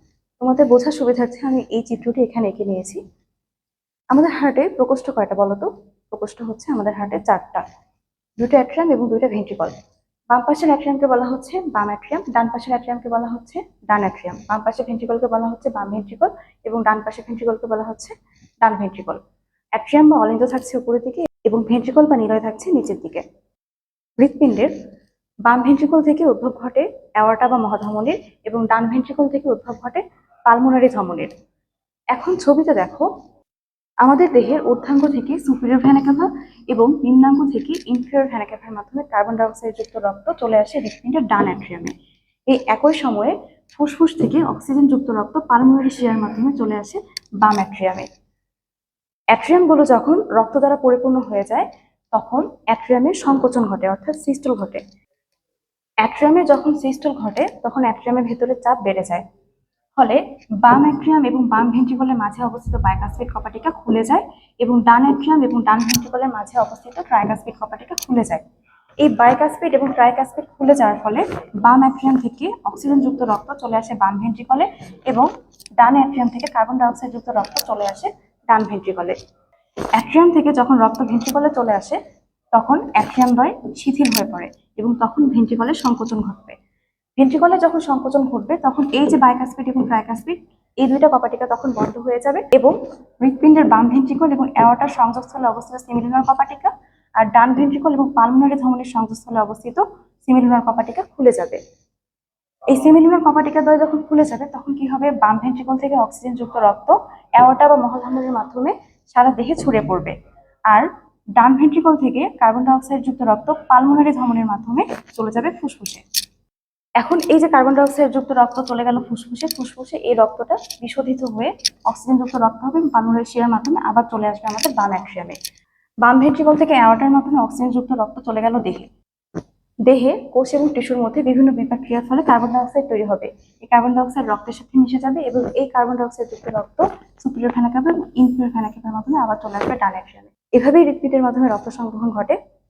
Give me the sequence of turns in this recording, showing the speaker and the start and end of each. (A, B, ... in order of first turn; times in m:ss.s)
0:00.4-0:03.0 A
0:04.1-0:07.6 A
0:08.4-0:09.7 A
0:10.3-0:19.2 A
0:19.8-0:23.2 A
0:24.2-0:24.7 A
0:25.4-0:31.3 A
0:32.1-0:33.1 A
0:34.0-0:41.9 A
0:42.5-0:48.1 A
0:49.3-0:54.8 A
0:56.0-0:59.2 A
1:00.0-1:08.4 A
1:09.0-1:15.3 A
1:15.8-1:19.2 A
1:20.0-1:22.0 A
1:22.5-1:26.6 A
1:27.2-1:41.6 A
1:42.7-1:50.1 A
1:50.7-1:56.0 A
1:57.0-2:05.4 A
2:06.0-2:08.9 A
2:09.8-2:22.4 A